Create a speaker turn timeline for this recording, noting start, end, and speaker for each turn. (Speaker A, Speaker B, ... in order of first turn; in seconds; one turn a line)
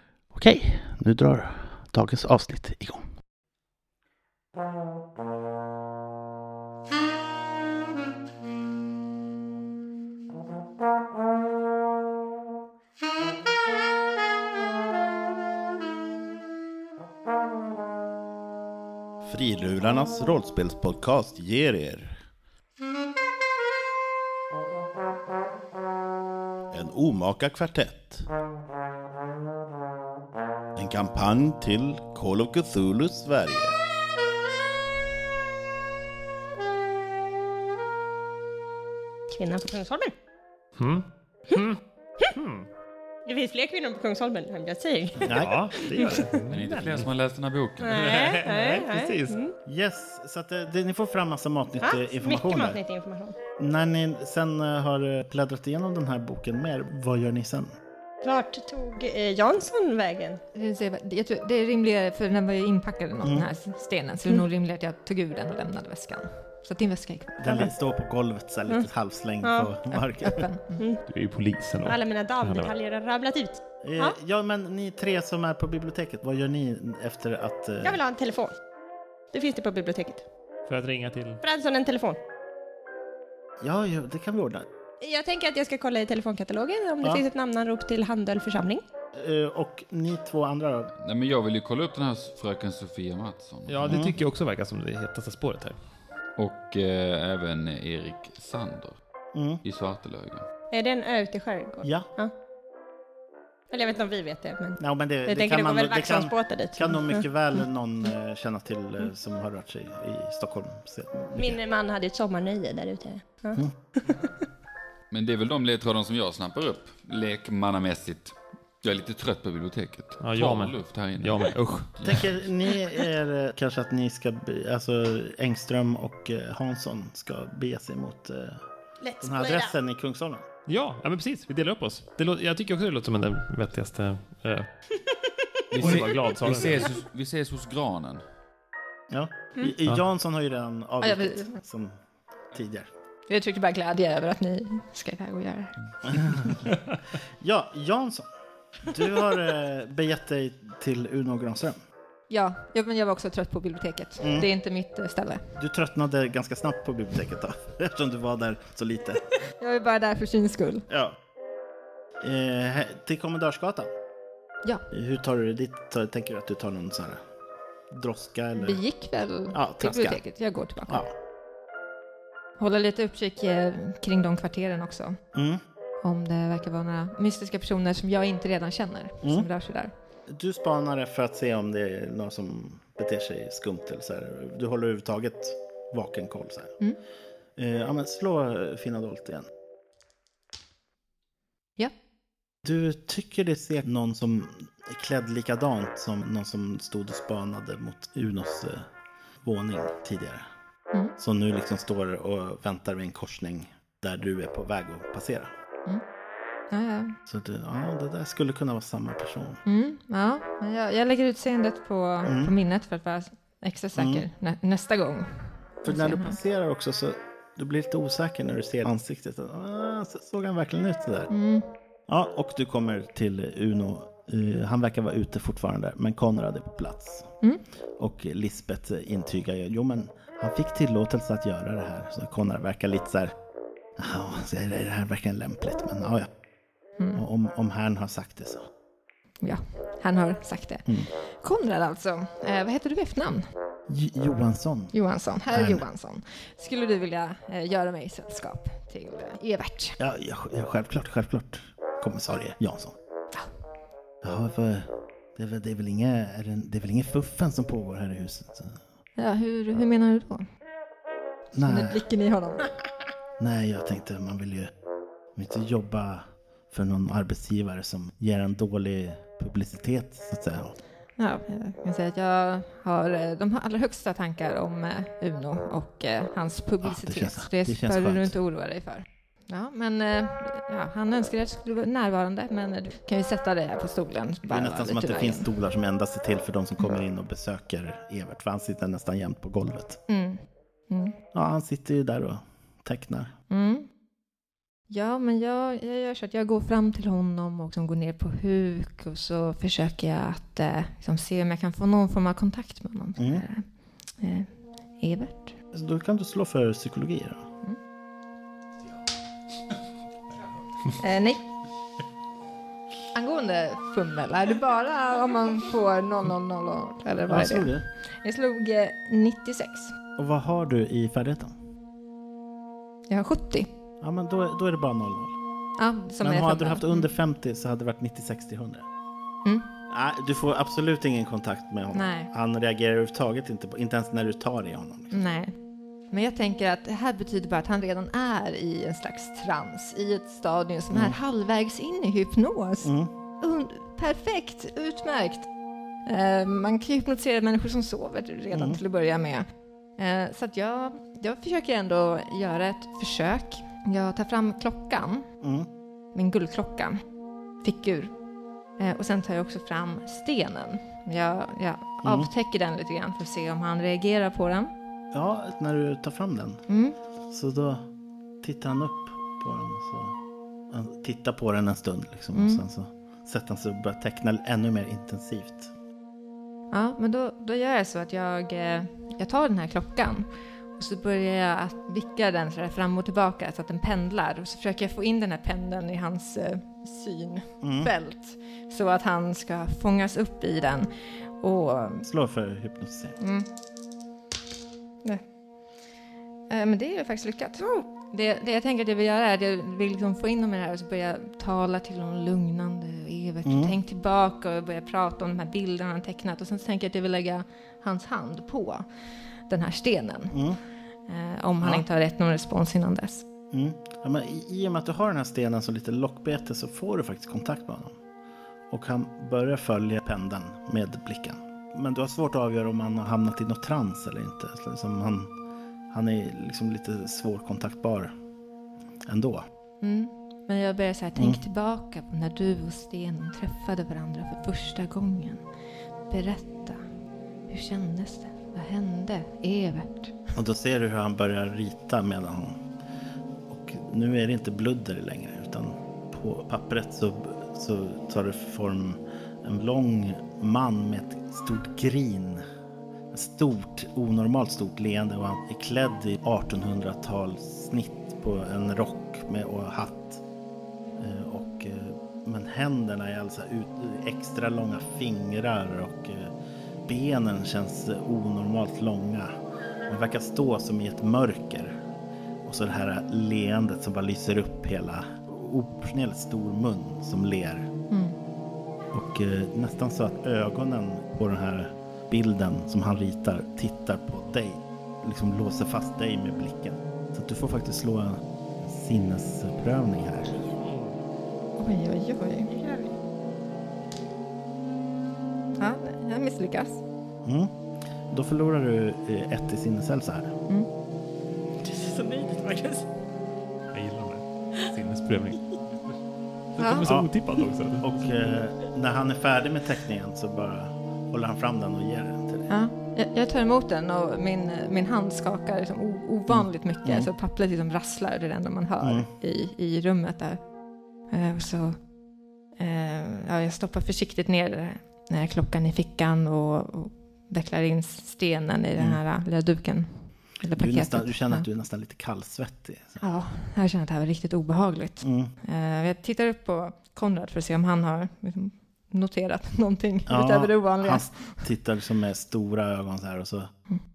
Speaker A: 0.3-3.0
Speaker B: 19.2-22.2
Speaker B: 26.7-28.3
Speaker B: 30.8-33.8
Speaker C: 39.3-40.1
Speaker D: 40.8-41.8
Speaker D: 42.3-42.7
Speaker C: 43.3-46.4
Speaker A: 45.2-45.7
Speaker D: 45.3-47.1
Speaker E: 46.5-48.0
Speaker C: 47.8-49.5
Speaker D: 47.9-49.4
Speaker A: 49.7-52.8
Speaker C: 51.8-53.4
Speaker A: 53.6-57.7
Speaker C: 58.2-60.4
Speaker F: 60.5-67.7
Speaker A: 63.2-63.5
Speaker A: 67.4-70.5
Speaker C: 69.4-69.7
Speaker F: 69.9-70.8
Speaker D: 71.1-72.7
Speaker C: 71.8-74.2
Speaker A: 73.8-78.0
Speaker C: 77.8-78.5
Speaker C: 79.3-80.2
Speaker D: 80.7-81.4
Speaker C: 81.4-82.2
Speaker A: 83.6-84.7
Speaker C: 85.0-88.8
Speaker A: 89.2-90.9
Speaker E: 91.0-94.0
Speaker D: 93.7-95.8
Speaker A: 93.9-94.2
Speaker E: 96.4-99.0
Speaker A: 99.3-99.6
Speaker E: 99.6-100.4
Speaker C: 100.7-102.3
Speaker C: 103.7-107.2
Speaker A: 104.8-111.6
Speaker C: 111.3-114.3
Speaker E: 115.1-122.2
Speaker D: 120.2-122.2
Speaker A: 122.0-128.6
Speaker C: 129.0-129.7
Speaker A: 129.2-130.4
Speaker D: 130.7-134.7
Speaker E: 135.7-138.2
Speaker D: 135.8-136.9
Speaker A: 139.1-142.0
Speaker F: 141.0-141.6
Speaker A: 142.5-142.9
Speaker F: 143.3-145.8
Speaker A: 146.0-146.7
Speaker A: 147.4-148.3
Speaker A: 148.8-151.8
Speaker F: 152.3-155.4
Speaker A: 154.2-154.5
Speaker A: 155.6-159.2
Speaker F: 159.6-160.8
Speaker A: 160.9-161.2
Speaker A: 162.2-163.9
Speaker A: 164.9-167.2
Speaker A: 167.9-168.8
Speaker F: 168.6-171.1
Speaker A: 169.5-170.2
Speaker A: 170.9-171.1
Speaker F: 172.6-175.2
Speaker A: 175.3-175.6
Speaker F: 176.0-179.9
Speaker A: 179.2-179.5
Speaker A: 180.3-186.8
Speaker A: 187.6-189.5
Speaker A: 192.6-198.9
Speaker A: 199.4-200.5
Speaker A: 201.2-205.5
Speaker F: 206.7-207.2
Speaker A: 207.2-209.6
Speaker F: 209.7-216.4
Speaker A: 212.2-212.5
Speaker A: 213.9-214.2
Speaker A: 215.8-221.3
Speaker F: 221.3-221.7
Speaker A: 222.1-227.3
Speaker A: 228.0-233.3
Speaker A: 234.0-236.3
Speaker F: 237.0-237.2
Speaker A: 237.2-238.6
Speaker F: 239.4-243.5
Speaker A: 243.9-244.9
Speaker F: 244.9-249.9
Speaker A: 245.5-245.8
Speaker A: 250.0-252.9
Speaker A: 254.2-258.8
Speaker F: 259.2-260.4
Speaker A: 261.5-262.0
Speaker F: 261.6-262.7
Speaker A: 263.4-264.7
Speaker A: 265.4-270.8
Speaker F: 271.2-285.5
Speaker A: 276.8-278.3
Speaker A: 284.5-290.0
Speaker F: 290.1-291.1
Speaker A: 291.3-293.3
Speaker F: 293.5-293.9
Speaker F: 294.9-303.7
Speaker A: 303.2-303.4
Speaker F: 304.2-305.5
Speaker A: 305.7-307.4
Speaker F: 311.0-311.4
Speaker F: 313.1-317.7
Speaker A: 317.3-317.9
Speaker F: 318.2-319.9
Speaker A: 320.2-321.5
Speaker F: 323.1-323.7
Speaker A: 324.0-325.4
Speaker F: 325.8-327.1
Speaker A: 326.2-328.9
Speaker A: 329.9-335.2
Speaker F: 331.9-332.3
Speaker F: 335.1-335.5
Speaker F: 336.1-345.5
Speaker A: 340.9-341.2
Speaker A: 342.8-343.1
Speaker F: 346.1-349.4
Speaker A: 348.5-348.8
Speaker F: 350.0-355.2
Speaker A: 355.4-355.7
Speaker F: 356.1-357.0
Speaker F: 357.6-358.1
Speaker F: 358.8-364.7
Speaker A: 362.0-362.3
Speaker A: 365.1-366.6
Speaker F: 366.7-366.9
Speaker A: 367.3-367.9
Speaker A: 368.4-370.1
Speaker A: 370.7-375.7
Speaker F: 372.4-372.6
Speaker F: 376.7-392.1
Speaker A: 387.6-387.9
Speaker A: 392.0-393.2
Speaker F: 393.2-393.5
Speaker F: 396.5-408.9
Speaker C: 397.6-397.9
Speaker A: 403.4-403.8
Speaker F: 409.5-410.4
Speaker A: 410.3-410.6
Speaker F: 411.1-413.2
Speaker A: 413.5-417.9
Speaker A: 418.7-425.3
Speaker A: 425.9-428.1
Speaker A: 429.1-429.5
Speaker F: 429.8-435.4
Speaker A: 431.2-431.4
Speaker F: 436.1-436.8
Speaker F: 437.5-440.1
Speaker A: 440.4-442.6
Speaker A: 443.5-452.4
Speaker A: 453.1-460.2
Speaker A: 460.9-466.3
Speaker A: 466.9-469.3
Speaker A: 469.9-471.8
Speaker A: 472.4-477.7
Speaker F: 477.9-478.2
Speaker A: 478.9-490.4
Speaker D: 490.5-491.0
Speaker F: 491.6-492.5
Speaker C: 492.5-492.9
Speaker F: 495.6-496.8
Speaker A: 497.2-497.5
Speaker A: 498.1-500.3
Speaker C: 501.6-502.9
Speaker D: 503.7-505.6
Speaker D: 506.6-508.4
Speaker F: 506.6-506.9
Speaker A: 506.9-507.1
Speaker A: 507.8-512.5
Speaker F: 512.5-520.4
Speaker A: 516.3-517.1
Speaker A: 518.8-519.1
Speaker F: 521.1-521.8
Speaker F: 522.6-531.4
Speaker A: 530.6-533.0
Speaker F: 533.0-541.4
Speaker A: 535.0-535.3
Speaker A: 540.1-543.5